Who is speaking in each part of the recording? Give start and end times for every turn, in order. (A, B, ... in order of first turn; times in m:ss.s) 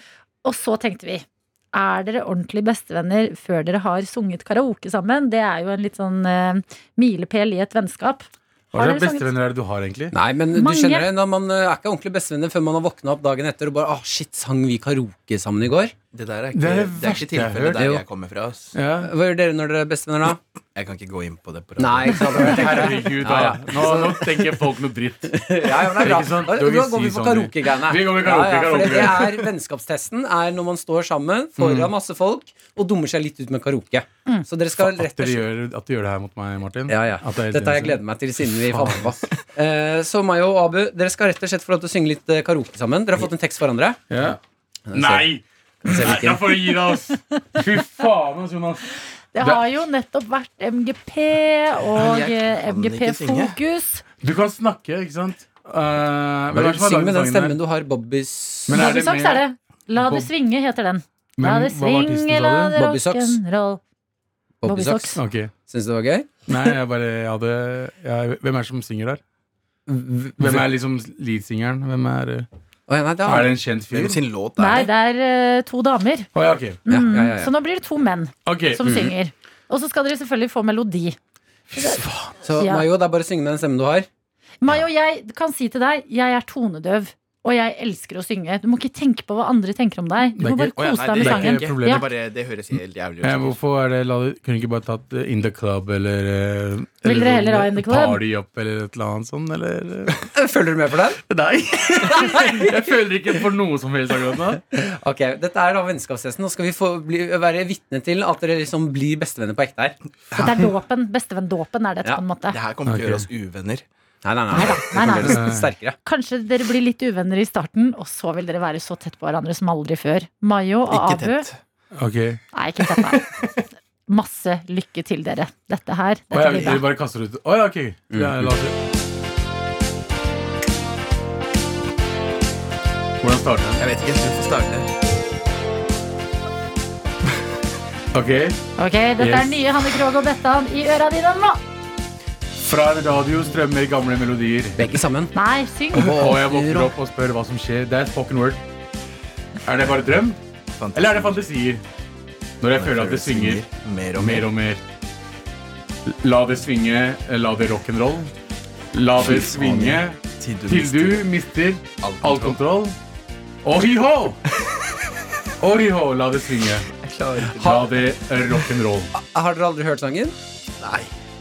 0:00.4-0:09.3 A
0:08.7-0:10.1 B
0:10.1-0:15.9 C
0:10.5-0:11.1 A
0:16.1-0:18.7 D
0:16.5-0:17.8 B
0:17.8-0:18.0 C
0:18.7-0:19.1 B
0:19.0-0:20.4 C
0:20.7-0:22.6 D
0:21.8-0:24.7 C
0:22.2-0:29.5 B
0:25.3-0:35.4 C
0:31.6-0:31.9 B
0:34.8-0:39.1 B
0:36.9-0:44.0 C
0:44.1-0:44.4 B
0:44.9-0:45.3 C
0:44.9-0:48.8 B
0:45.8-0:46.6 C
0:49.3-0:54.0 A
0:52.0-0:53.6 D
0:54.2-0:57.6 B
0:56.5-0:58.8 C
0:58.7-0:59.4 B
0:58.7-1:03.8 A
1:00.0-1:00.3 B
1:01.4-1:02.7 B
1:02.8-1:03.4 C
1:04.6-1:06.4 C
1:04.6-1:05.2 A
1:05.2-1:05.5 B
1:06.5-1:09.2 B
1:09.9-1:10.6 C
1:10.4-1:12.4 B
1:12.9-1:13.6 C
1:13.2-1:14.2 B
1:13.9-1:14.9 D
1:14.6-1:16.3 A
1:16.3-1:16.8 B
1:16.8-1:21.2 A
1:16.9-1:17.5 C
1:18.4-1:18.9 B
1:18.8-1:19.1 C
1:21.7-1:22.0 A
1:21.8-1:22.3 B
1:22.4-1:24.1 C
1:22.6-1:22.8 A
1:24.6-1:32.0 A
1:30.4-1:32.1 B
1:30.8-1:33.6 D
1:33.2-1:40.1 B
1:37.0-1:38.2 A
1:40.3-1:41.2 C
1:41.3-1:44.6 B
1:42.0-1:43.4 C
1:44.5-1:50.0 C
1:50.3-1:52.6 A
1:52.5-1:53.8 D
1:52.8-1:53.3 B
1:54.2-1:56.0 C
1:54.5-1:55.5 A
1:55.2-1:55.7 B
1:56.0-2:01.5 A
2:00.9-2:01.6 D
2:01.9-2:02.4 B
2:02.5-2:03.2 A
2:04.1-2:06.8 A
2:06.3-2:08.8 B
2:08.1-2:08.5 C
2:13.2-2:13.8 B
2:13.8-2:14.9 D
2:18.1-2:18.6 B
2:18.8-2:21.6 A
2:19.2-2:19.5 B
2:22.6-2:24.8 B
2:24.8-2:25.3 C
2:25.3-2:26.2 A
2:25.9-2:26.9 C
2:26.1-2:28.6 B
2:29.6-2:30.4 B
2:30.8-2:31.4 D
2:30.9-2:31.8 B
2:32.6-2:34.8 B
2:32.7-2:34.5 D
2:36.0-2:38.3 B
2:38.9-2:42.9 B
2:39.2-2:41.3 D
2:42.0-2:42.6 D
2:43.6-2:44.4 B
2:45.6-2:46.9 B
2:47.0-2:48.0 D
2:47.6-2:49.1 B
2:49.1-2:50.3 C
2:50.8-2:51.1 D